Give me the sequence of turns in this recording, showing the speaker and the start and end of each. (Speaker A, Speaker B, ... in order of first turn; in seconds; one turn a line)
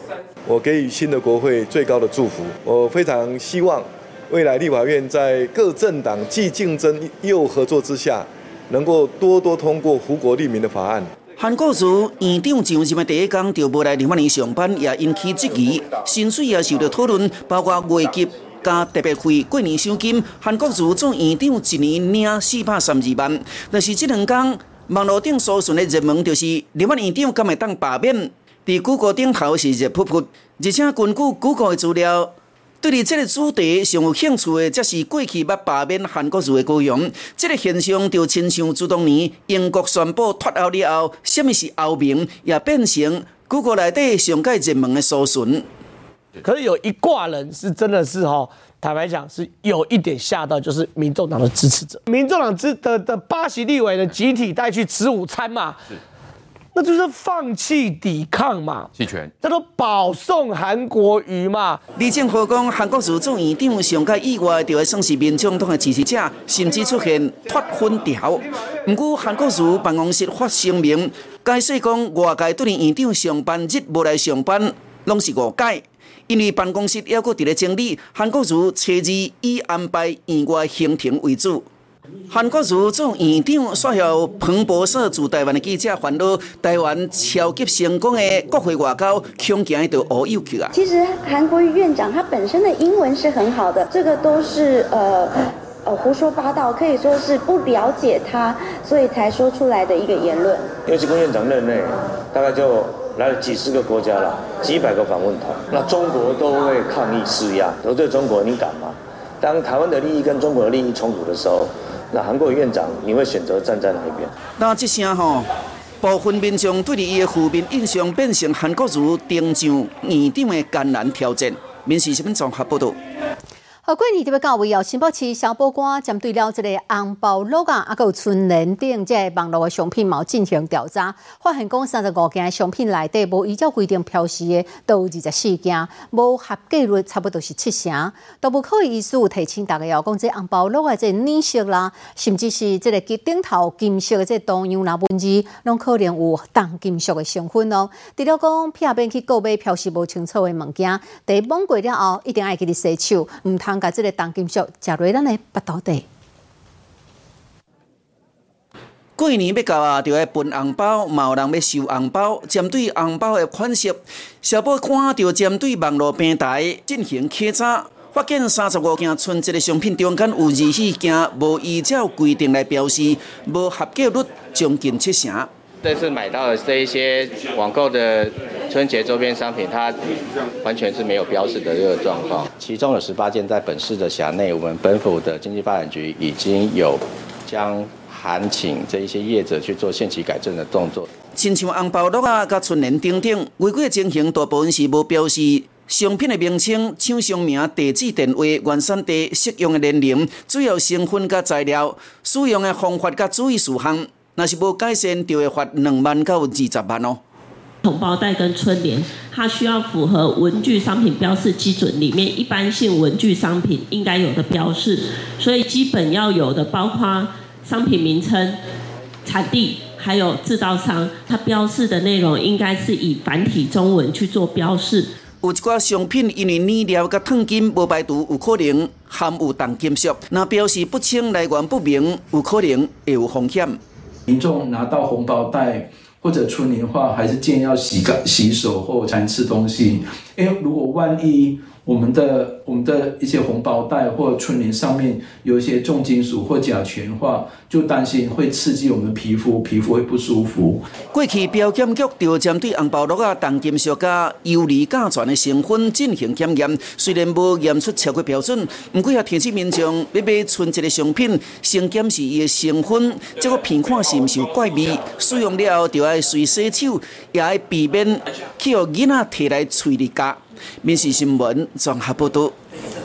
Speaker A: 0.5-11.1
Speaker B: 11.4-45.6
Speaker C: 46.4-55.8
Speaker C: 56.8-58.9
Speaker C: 59.4-61.8
Speaker B: 62.0-81.7
Speaker B: 82.3-90.7
Speaker D: 90.7-95.3
Speaker D: 95.9-100.8
Speaker E: 100.8-114.3
Speaker B: 114.6-115.5
Speaker B: 116.0-123.0
Speaker F: 123.8-156.1
Speaker B: 159.2-175.5
Speaker G: 175.8-180.0
Speaker G: 180.6-191.1
Speaker B: 191.4-207.2
Speaker H: 207.8-218.6
Speaker H: 219.2-225.1
Speaker B: 225.4-233.8
Speaker I: 234.3-250.8
Speaker B: 251.1-272.5